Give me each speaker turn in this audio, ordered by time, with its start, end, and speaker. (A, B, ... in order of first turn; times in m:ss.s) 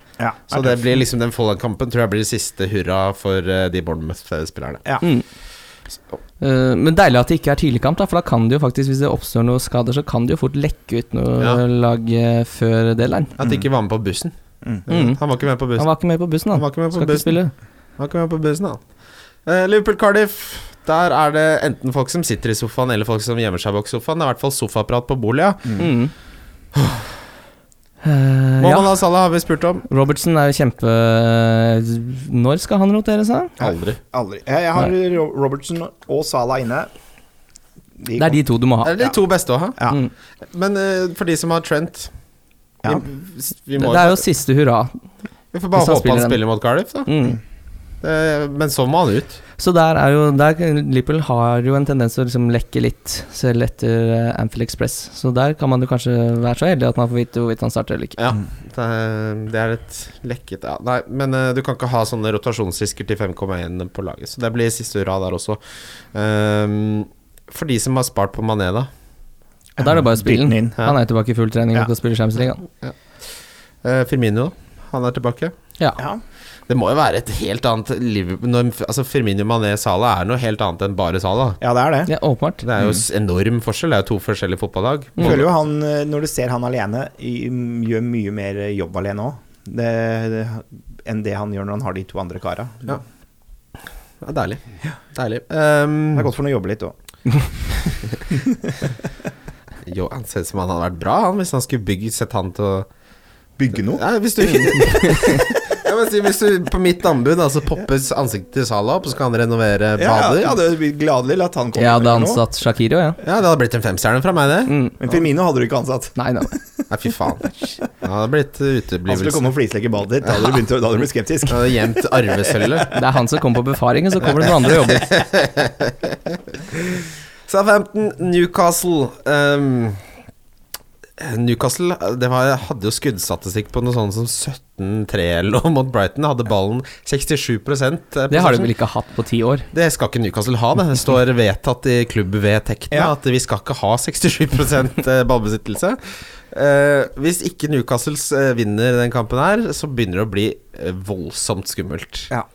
0:00.2-0:01.0 A
0:00.5-0:04.9 B
0:06.4-0:13.4 C
0:13.4-0:14.3 B
0:14.9-0:17.4 B
0:14.9-0:15.2 C
0:15.8-0:17.5 C
0:18.0-0:18.8 B
0:19.4-0:25.8 B
0:25.8-0:26.1 C
0:26.8-0:27.1 B
0:28.0-0:28.9 C
0:28.6-0:29.9 B
0:29.9-0:33.5 C
0:33.6-0:34.0 B
0:33.6-0:36.9 A
0:38.0-0:38.4 A
0:38.2-0:38.9 C
0:38.8-0:39.9 B
0:40.5-0:42.1 B
0:42.8-0:44.2 B
0:43.8-0:45.0 C
0:45.5-0:47.1 B
0:45.7-0:46.4 C
0:47.1-0:47.4 C
0:48.0-0:49.4 B
0:49.6-0:58.2 C
0:58.2-1:05.6 B
1:06.1-1:08.9 B
1:09.8-1:10.8 A
1:09.8-1:12.6 C
1:13.8-1:15.5 B
1:16.7-1:21.6 B
1:21.6-1:22.1 A
1:22.1-1:22.6 C
1:22.6-1:25.5 B
1:25.2-1:33.0 A
1:34.2-1:34.6 B
1:35.1-1:36.3 B
1:36.1-1:37.0 A
1:38.3-1:38.7 A
1:39.9-1:42.9 B
1:43.6-1:44.0 A
1:44.0-1:50.6 B
1:44.4-1:45.4 C
1:50.0-1:52.4 A
1:51.8-1:53.2 C
1:53.2-1:54.8 B
1:54.7-1:55.0 C
1:55.0-1:56.8 A
1:56.2-1:56.5 C
1:56.9-1:59.5 B
1:59.1-2:02.9 A
2:01.5-2:02.9 B
2:02.9-2:05.1 C
2:04.8-2:10.0 B
2:11.2-2:18.7 B
2:18.3-2:19.7 C
2:19.7-2:32.3 B